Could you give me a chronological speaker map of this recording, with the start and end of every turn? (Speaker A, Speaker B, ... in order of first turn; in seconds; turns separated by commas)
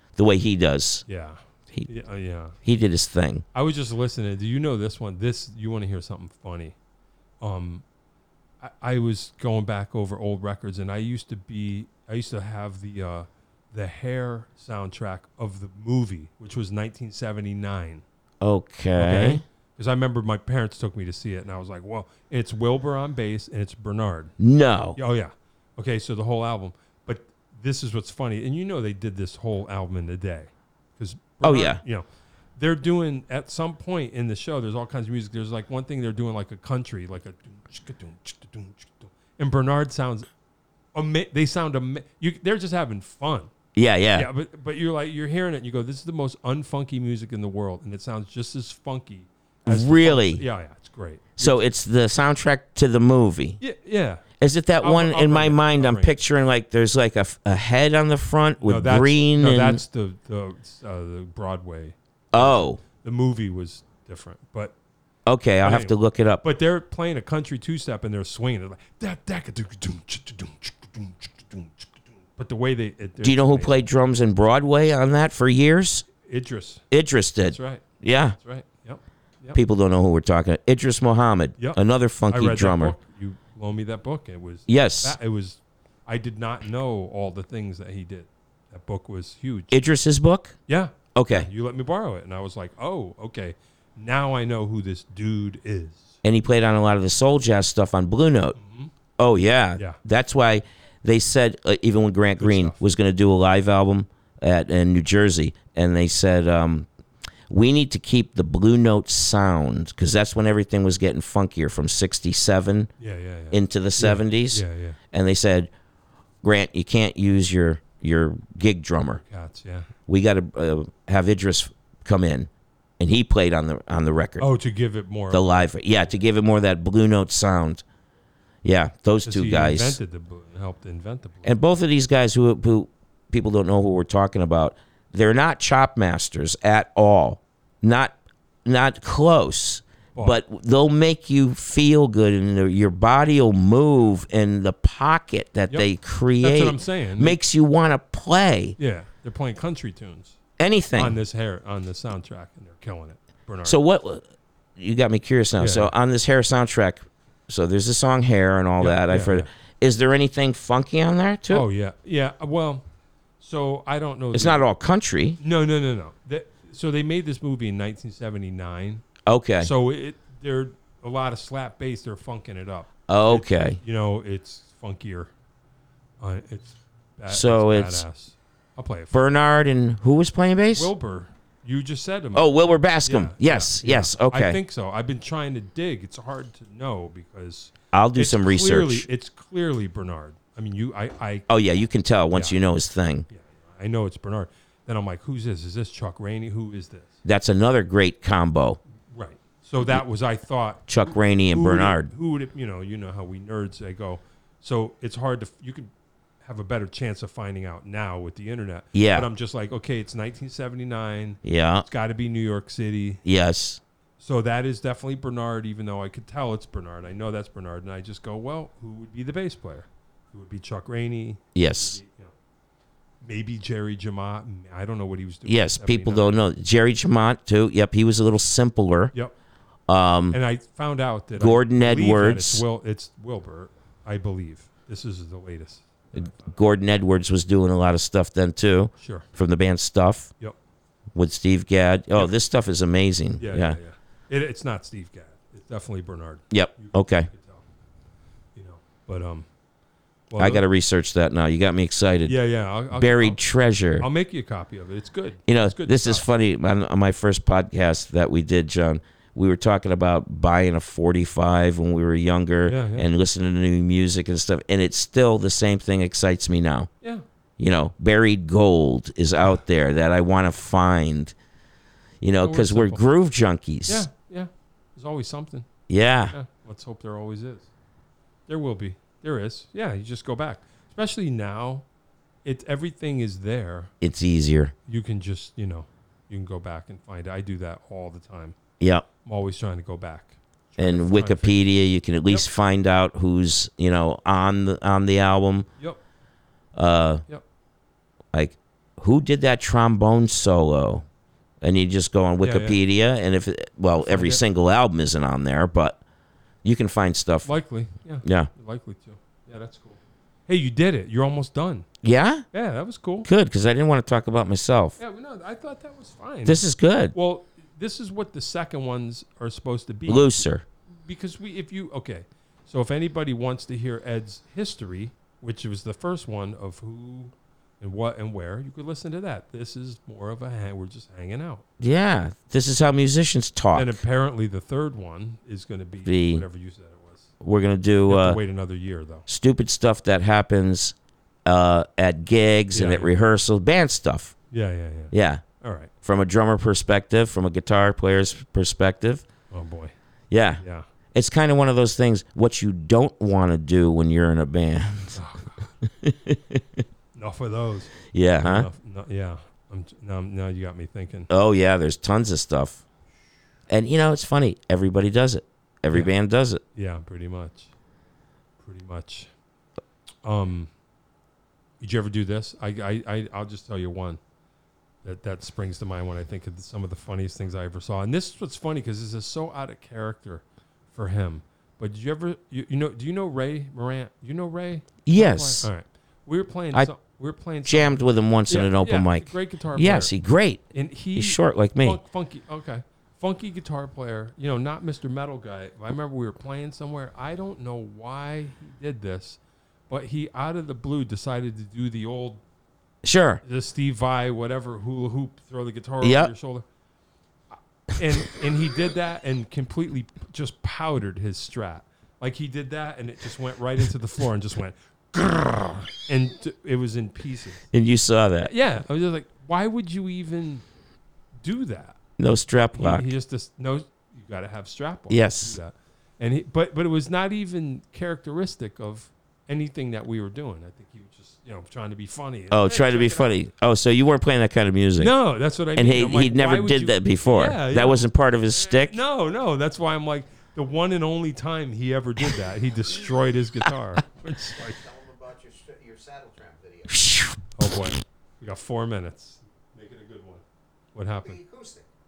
Speaker A: 0.1-1.0, Speaker B: 1.1-2.5, Speaker A: 2.6-3.4, Speaker B: 3.5-6.8, Speaker B: 7.4-7.8, Speaker B: 8.6-18.0, Speaker A: 18.4-19.4, Speaker B: 19.0-24.3, Speaker A: 24.4-25.0, Speaker B: 25.0-32.0, Speaker A: 31.4-31.8, Speaker B: 32.5-40.3, Speaker B: 40.9-43.5, Speaker A: 43.7-44.3, Speaker B: 44.1-51.6, Speaker A: 49.6-50.4, Speaker A: 51.4-53.6, Speaker B: 53.6-54.2, Speaker A: 54.4-59.8, Speaker B: 54.8-56.1, Speaker B: 58.6-64.8, Speaker A: 62.3-62.8, Speaker A: 65.2-66.4, Speaker B: 65.6-73.8, Speaker A: 73.2-76.0, Speaker B: 76.2-76.8, Speaker A: 76.9-78.3, Speaker B: 77.5-77.8, Speaker B: 78.4-79.6, Speaker A: 79.5-83.0, Speaker B: 81.6-89.8, Speaker A: 84.7-85.2, Speaker A: 89.7-90.5, Speaker B: 90.7-96.2, Speaker A: 91.1-91.5, Speaker A: 96.2-98.5, Speaker B: 98.5-98.9, Speaker A: 99.2-106.9, Speaker B: 102.4-102.8, Speaker A: 107.5-112.9, Speaker B: 113.0-115.0, Speaker A: 113.5-115.7, Speaker A: 116.4-119.2, Speaker B: 119.2-119.9, Speaker A: 120.1-124.5, Speaker B: 124.4-126.1, Speaker A: 125.3-127.8, Speaker A: 128.6-130.0, Speaker B: 129.2-131.6, Speaker A: 131.4-148.8, Speaker B: 146.4-147.4, Speaker B: 148.8-150.4, Speaker A: 150.6-151.2, Speaker B: 150.9-153.8, Speaker A: 153.6-154.2, Speaker A: 154.8-161.7, Speaker B: 155.6-155.9, Speaker B: 158.8-159.5, Speaker B: 161.5-162.8, Speaker B: 163.4-164.6, Speaker A: 164.3-165.4, Speaker B: 165.4-169.0, Speaker A: 169.2-169.7, Speaker B: 169.6-175.3, Speaker A: 173.1-173.8, Speaker B: 176.2-179.2, Speaker A: 177.3-178.0, Speaker A: 179.1-180.9, Speaker B: 180.7-182.5, Speaker A: 182.3-184.6, Speaker B: 183.0-191.4, Speaker A: 187.9-189.1, Speaker A: 191.5-193.3, Speaker B: 192.3-192.6, Speaker B: 193.3-197.2, Speaker A: 197.2-198.8, Speaker B: 199.1-205.9, Speaker A: 200.9-202.1, Speaker B: 206.4-213.2, Speaker A: 208.9-209.3, Speaker A: 211.4-211.8, Speaker A: 213.2-213.8, Speaker B: 214.2-222.3, Speaker A: 221.5-222.0, Speaker B: 223.2-226.3, Speaker A: 225.4-229.1, Speaker A: 229.9-230.4, Speaker B: 230.3-236.6, Speaker A: 231.4-232.6, Speaker A: 236.2-240.3, Speaker B: 239.0-239.3, Speaker A: 241.1-243.8, Speaker B: 243.4-247.6, Speaker A: 246.5-247.3, Speaker B: 248.5-249.5, Speaker B: 250.3-250.6, Speaker A: 250.4-252.3, Speaker B: 252.2-253.4, Speaker A: 252.9-254.1, Speaker B: 254.0-256.2, Speaker A: 255.5-266.9, Speaker B: 262.6-263.1, Speaker A: 267.6-271.3, Speaker A: 272.2-274.1, Speaker B: 272.4-273.0, Speaker B: 273.9-275.7, Speaker A: 275.9-276.3, Speaker B: 276.3-277.7, Speaker B: 278.5-281.8, Speaker B: 282.4-283.9, Speaker A: 284.0-284.7, Speaker B: 284.9-288.6, Speaker A: 288.8-289.1, Speaker B: 289.2-291.6, Speaker A: 290.8-295.7, Speaker A: 296.7-297.2, Speaker A: 298.3-301.0, Speaker A: 301.6-306.0, Speaker B: 302.4-302.8, Speaker B: 304.0-304.4, Speaker A: 306.6-307.5, Speaker B: 307.4-311.9, Speaker A: 308.2-308.5, Speaker A: 312.0-312.4, Speaker B: 312.5-313.3, Speaker A: 313.2-315.0, Speaker B: 315.0-320.3, Speaker A: 316.4-317.1, Speaker A: 320.1-320.6, Speaker B: 321.0-331.6, Speaker A: 331.8-334.0, Speaker B: 333.7-337.3, Speaker A: 336.1-336.4, Speaker A: 337.4-338.4, Speaker B: 338.1-339.2, Speaker A: 339.3-344.3, Speaker B: 342.7-343.1, Speaker B: 344.5-345.9, Speaker A: 345.1-345.4, Speaker A: 346.0-349.2, Speaker B: 349.5-349.9, Speaker A: 350.3-350.6, Speaker A: 351.1-355.2, Speaker B: 355.1-355.7, Speaker A: 355.8-356.8, Speaker B: 357.1-361.3, Speaker A: 358.1-358.7, Speaker A: 361.3-362.8, Speaker A: 363.7-366.6, Speaker B: 366.7-367.7, Speaker B: 368.6-369.3, Speaker B: 370.2-370.7, Speaker B: 371.8-374.2, Speaker B: 375.0-390.1, Speaker A: 385.1-385.7, Speaker A: 387.6-390.6, Speaker B: 390.7-399.4, Speaker A: 391.1-392.0, Speaker B: 399.9-402.4, Speaker A: 403.0-403.4, Speaker B: 403.4-406.6, Speaker A: 406.0-406.3, Speaker B: 407.5-417.7, Speaker A: 417.7-418.5, Speaker B: 418.4-420.6, Speaker B: 421.4-422.0, Speaker A: 422.2-423.1, Speaker B: 422.7-433.4, Speaker A: 425.1-425.6, Speaker A: 432.5-435.1, Speaker B: 435.0-438.0, Speaker A: 435.7-439.0, Speaker B: 438.7-444.8, Speaker C: 444.6-447.1, Speaker A: 446.9-447.4, Speaker B: 447.6-450.4, Speaker B: 450.9-451.4, Speaker C: 451.2-451.9